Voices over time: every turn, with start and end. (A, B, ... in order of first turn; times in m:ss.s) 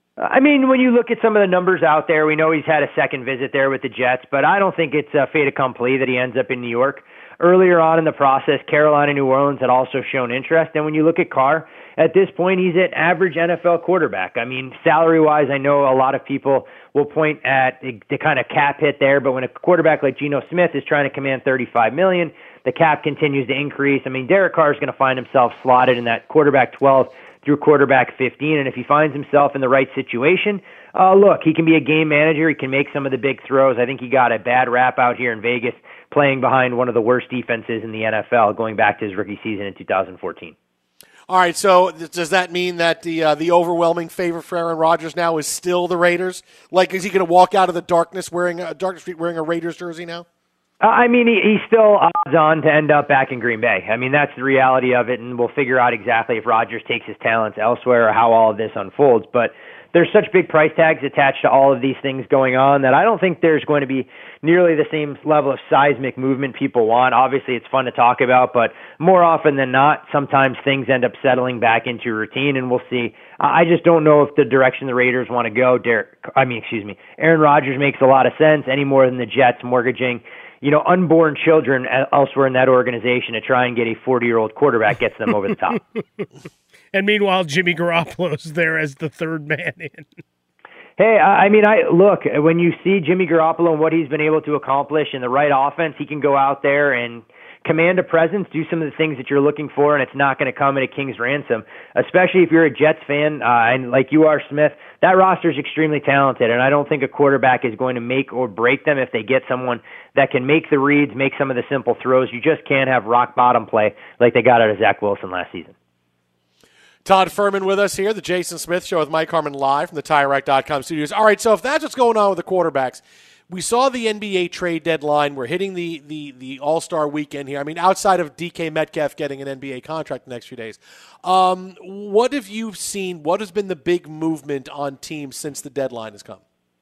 0:00.2-0:40.6 A
0:41.3-0:50.3 B
0:50.8-1:25.8 A
1:26.9-1:30.1 C
1:31.0-1:55.7 A
1:57.0-2:16.4 B